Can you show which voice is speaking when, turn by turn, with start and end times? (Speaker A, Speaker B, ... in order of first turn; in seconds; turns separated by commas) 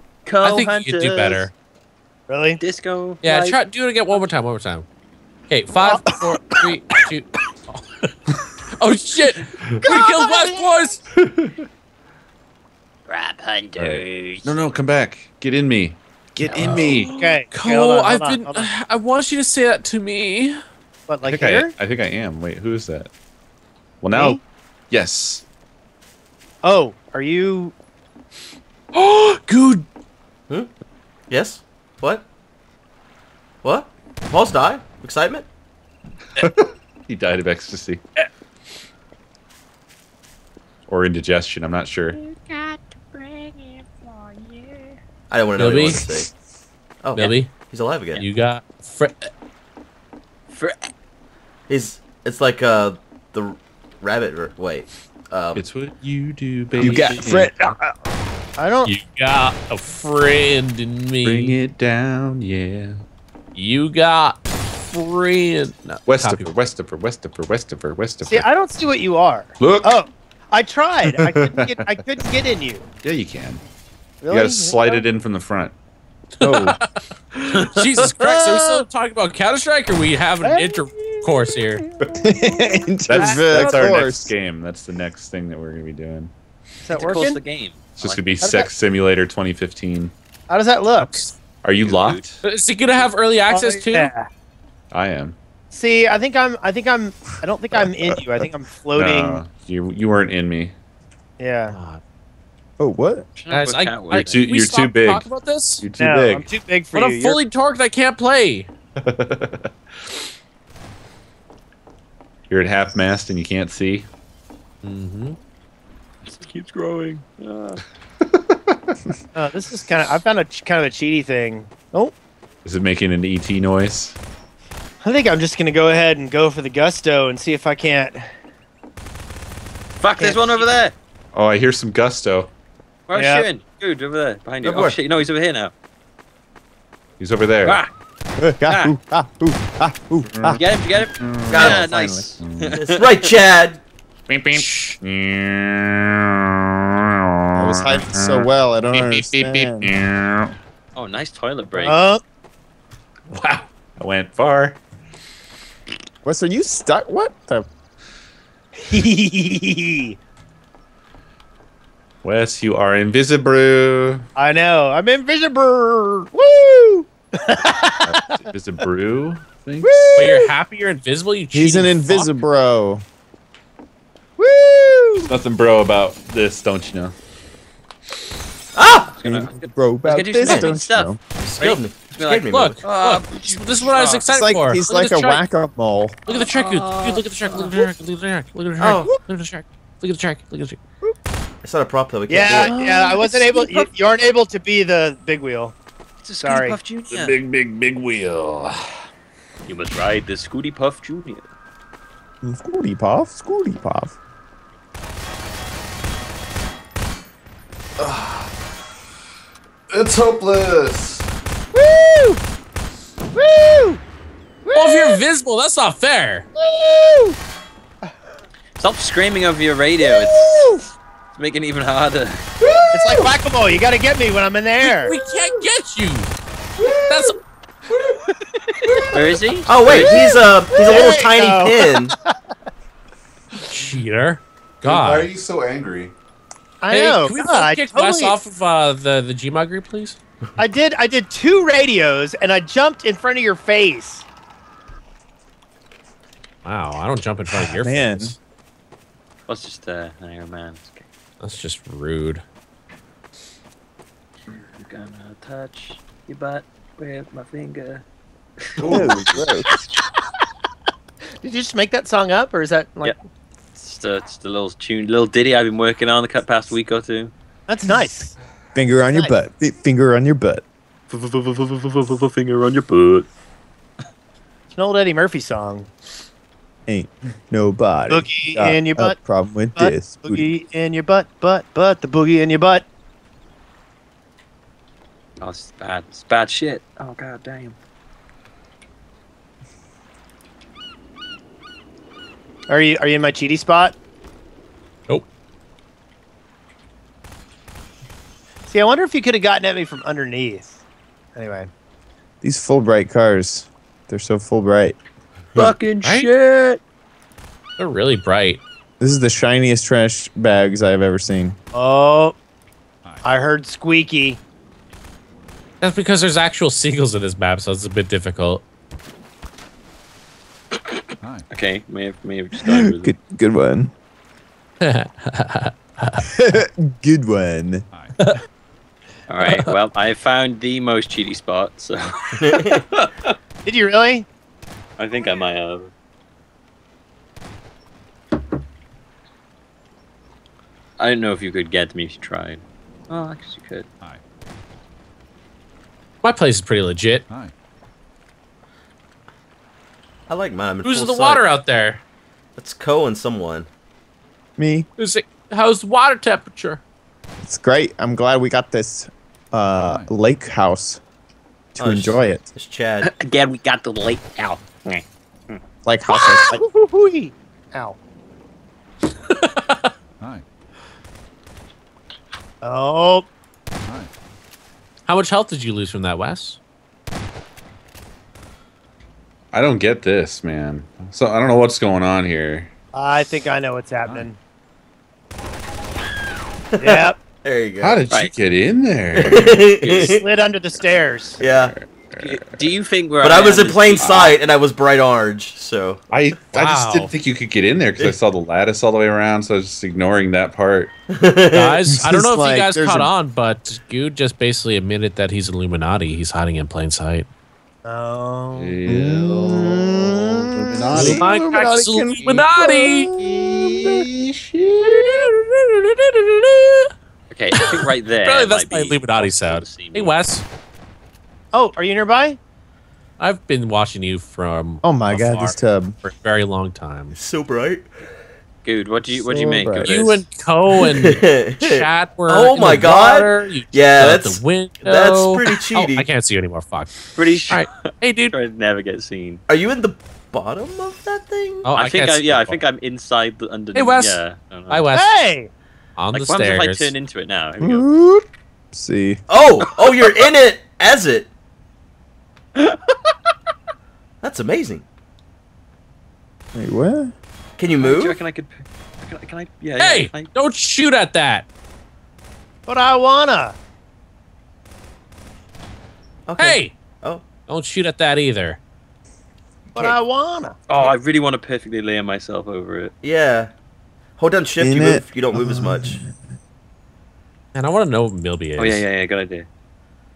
Speaker A: 0.2-1.5, Speaker B: 0.4-1.5, Speaker C: 2.3-2.6, Speaker A: 2.6-3.5, Speaker B: 3.2-4.8, Speaker B: 5.5-8.1, Speaker B: 8.8-11.0, Speaker C: 9.9-10.6, Speaker A: 13.1-14.5, Speaker D: 13.7-17.1, Speaker A: 16.4-17.1, Speaker C: 17.1-18.6, Speaker B: 17.5-20.6, Speaker C: 21.1-21.7, Speaker D: 21.2-23.1, Speaker D: 24.0-25.4, Speaker C: 26.6-27.7, Speaker B: 28.9-29.9, Speaker E: 31.3-32.3, Speaker E: 33.6-35.5, Speaker D: 36.4-38.0, Speaker D: 40.9-42.2, Speaker A: 42.1-44.9, Speaker E: 45.3-46.3, Speaker B: 45.6-46.1, Speaker E: 47.0-48.2, Speaker B: 47.1-47.5, Speaker B: 48.1-49.3, Speaker A: 50.5-50.9, Speaker E: 51.7-55.6, Speaker D: 55.5-57.7, Speaker A: 56.8-57.2, Speaker F: 56.8-57.8, Speaker C: 58.6-58.9, Speaker B: 58.8-61.6, Speaker D: 61.2-63.0, Speaker B: 63.5-66.5, Speaker D: 66.0-68.5, Speaker C: 68.2-72.8, Speaker D: 69.6-70.0, Speaker D: 71.0-72.0, Speaker D: 73.0-73.6, Speaker C: 74.2-75.0, Speaker D: 74.2-75.7, Speaker B: 76.4-77.0, Speaker F: 76.4-76.8, Speaker A: 77.5-78.7, Speaker B: 77.6-81.8, Speaker C: 80.4-81.1, Speaker D: 82.0-82.3, Speaker F: 82.2-84.3, Speaker D: 83.1-86.3, Speaker C: 83.2-83.5, Speaker C: 86.9-87.4, Speaker A: 86.9-88.3, Speaker D: 88.0-90.1, Speaker C: 90.5-91.1, Speaker B: 91.0-91.3, Speaker D: 91.6-92.4, Speaker A: 91.8-92.2, Speaker B: 92.4-94.1, Speaker C: 93.5-94.2, Speaker D: 94.9-95.3, Speaker C: 95.7-99.4, Speaker D: 98.9-100.7, Speaker C: 101.4-101.7, Speaker B: 101.7-102.0, Speaker F: 102.8-103.3, Speaker A: 103.3-104.4, Speaker B: 103.5-105.8, Speaker D: 104.1-106.5, Speaker C: 106.0-107.3, Speaker B: 106.9-108.7, Speaker D: 109.0-109.7, Speaker D: 112.5-114.1, Speaker B: 114.8-115.4, Speaker A: 116.2-117.8, Speaker C: 119.3-122.1, Speaker D: 122.6-124.2, Speaker C: 125.0-128.2, Speaker A: 130.0-130.9, Speaker C: 130.2-130.6, Speaker D: 131.3-132.5, Speaker A: 133.1-135.7, Speaker C: 133.2-133.4, Speaker E: 134.6-135.0, Speaker D: 137.2-137.8, Speaker A: 137.6-137.9, Speaker F: 138.4-140.6, Speaker A: 138.7-138.9, Speaker D: 140.2-140.6, Speaker A: 140.5-143.2, Speaker D: 141.2-141.8, Speaker E: 141.5-141.8, Speaker F: 141.5-142.3, Speaker D: 142.4-142.8, Speaker E: 142.8-143.8, Speaker D: 144.3-145.9, Speaker B: 144.5-144.9, Speaker D: 147.5-150.5, Speaker F: 147.6-149.9, Speaker A: 150.9-152.0, Speaker C: 151.8-152.2, Speaker D: 153.3-154.8, Speaker F: 156.2-157.7, Speaker C: 158.9-160.1, Speaker D: 162.2-164.2, Speaker C: 164.4-167.9, Speaker D: 168.1-170.2, Speaker C: 169.8-170.4, Speaker B: 170.1-172.3, Speaker F: 171.5-173.0, Speaker C: 174.4-175.3, Speaker D: 175.2-177.2, Speaker E: 178.7-179.1, Speaker A: 178.9-181.1, Speaker F: 179.2-181.2, Speaker E: 180.4-180.7, Speaker E: 181.4-182.8, Speaker A: 182.2-184.2, Speaker B: 182.5-185.4, Speaker F: 184.3-186.2, Speaker B: 186.2-190.8, Speaker A: 186.3-187.9, Speaker E: 188.8-189.1, Speaker E: 191.6-192.8, Speaker C: 192.3-195.7, Speaker B: 192.7-193.1, Speaker A: 193.2-193.9, Speaker A: 196.2-197.3, Speaker C: 196.4-196.8, Speaker D: 197.1-198.8, Speaker A: 199.7-201.5, Speaker F: 202.4-204.2, Speaker D: 208.0-208.5, Speaker D: 209.9-211.3, Speaker C: 211.8-212.4, Speaker C: 213.3-214.0, Speaker C: 214.7-215.1, Speaker B: 214.7-216.5, Speaker C: 216.6-217.3, Speaker A: 218.8-220.7, Speaker A: 221.3-222.4, Speaker C: 222.9-225.1, Speaker B: 224.8-226.3, Speaker B: 227.0-227.4, Speaker A: 228.7-230.3, Speaker E: 229.7-232.1, Speaker C: 230.8-231.8, Speaker B: 233.7-235.3, Speaker D: 234.8-236.1, Speaker C: 236.8-238.3, Speaker B: 236.9-240.2, Speaker C: 240.6-244.2, Speaker B: 246.6-248.4, Speaker F: 247.5-248.3, Speaker A: 249.5-251.1, Speaker B: 251.4-252.4, Speaker A: 254.5-258.0, Speaker A: 258.7-259.5, Speaker D: 258.8-259.3, Speaker F: 258.8-259.7, Speaker C: 261.4-263.1, Speaker A: 263.8-267.3, Speaker C: 267.7-268.3, Speaker F: 268.7-270.6, Speaker A: 271.1-273.3, Speaker C: 274.7-275.9, Speaker F: 276.9-280.5, Speaker C: 278.1-279.1, Speaker C: 279.8-282.8, Speaker A: 285.4-287.8, Speaker C: 292.7-293.9, Speaker C: 298.6-300.7, Speaker C: 301.4-301.7, Speaker F: 302.4-305.0, Speaker A: 305.6-306.8, Speaker B: 306.0-306.3, Speaker B: 307.8-308.6, Speaker F: 309.0-311.6, Speaker C: 311.7-312.3, Speaker C: 313.2-314.4, Speaker B: 315.8-318.6, Speaker A: 320.9-323.1, Speaker F: 322.6-323.9, Speaker B: 324.8-326.2, Speaker F: 326.4-327.9, Speaker A: 329.3-333.1, Speaker E: 332.4-332.8, Speaker C: 333.6-334.2, Speaker A: 335.0-335.9, Speaker A: 341.0-343.9, Speaker B: 346.2-347.2, Speaker E: 350.3-351.4, Speaker B: 350.8-352.0, Speaker E: 352.6-353.7, Speaker F: 354.6-354.9, Speaker B: 355.0-356.8, Speaker F: 357.4-361.0, Speaker D: 359.8-360.1, Speaker F: 361.7-362.5, Speaker E: 361.8-363.1, Speaker A: 363.0-365.6, Speaker F: 365.8-366.6, Speaker C: 366.6-368.0, Speaker B: 369.3-369.9, Speaker C: 372.6-373.2, Speaker D: 373.9-374.1, Speaker B: 375.1-376.6, Speaker D: 379.5-382.7, Speaker C: 382.9-384.4, Speaker E: 386.7-388.1, Speaker C: 386.8-387.2, Speaker D: 387.8-389.5, Speaker E: 389.1-390.2, Speaker A: 389.8-390.2, Speaker C: 390.2-391.4, Speaker E: 391.4-391.7, Speaker D: 391.4-392.7, Speaker A: 392.2-394.4, Speaker E: 393.2-396.0, Speaker D: 394.0-394.3, Speaker D: 396.1-400.9, Speaker B: 396.5-397.1, Speaker E: 401.1-401.8, Speaker B: 401.5-407.3, Speaker F: 402.0-403.1, Speaker C: 407.8-408.7, Speaker D: 408.5-411.6, Speaker F: 408.9-414.0, Speaker B: 410.9-413.1, Speaker D: 412.2-412.5, Speaker D: 413.2-415.1, Speaker B: 414.8-416.9, Speaker A: 417.3-420.1, Speaker B: 417.6-420.4, Speaker C: 421.5-422.4, Speaker B: 423.2-427.1, Speaker F: 424.8-425.9, Speaker E: 427.1-427.9, Speaker A: 428.6-430.2, Speaker F: 429.1-429.9, Speaker B: 429.8-438.3, Speaker E: 430.8-436.1, Speaker A: 437.1-437.7, Speaker A: 438.2-439.4, Speaker E: 439.5-441.7, Speaker B: 441.6-442.6, Speaker A: 441.7-444.9, Speaker B: 443.7-445.3, Speaker C: 445.0-445.5, Speaker B: 446.0-446.9, Speaker A: 446.1-447.9, Speaker F: 447.6-449.2, Speaker E: 449.3-451.3, Speaker A: 449.8-450.3, Speaker A: 452.6-452.9, Speaker E: 454.2-454.9, Speaker F: 456.5-457.1, Speaker E: 457.6-458.2, Speaker A: 457.8-460.3, Speaker B: 459.8-461.5, Speaker C: 462.7-463.5, Speaker E: 466.3-467.2, Speaker B: 466.4-466.7, Speaker B: 467.5-468.6, Speaker C: 469.8-470.6, Speaker A: 470.7-472.9, Speaker E: 473.0-473.5, Speaker E: 474.2-476.0, Speaker F: 474.6-476.0, Speaker B: 477.5-478.8, Speaker A: 478.6-479.5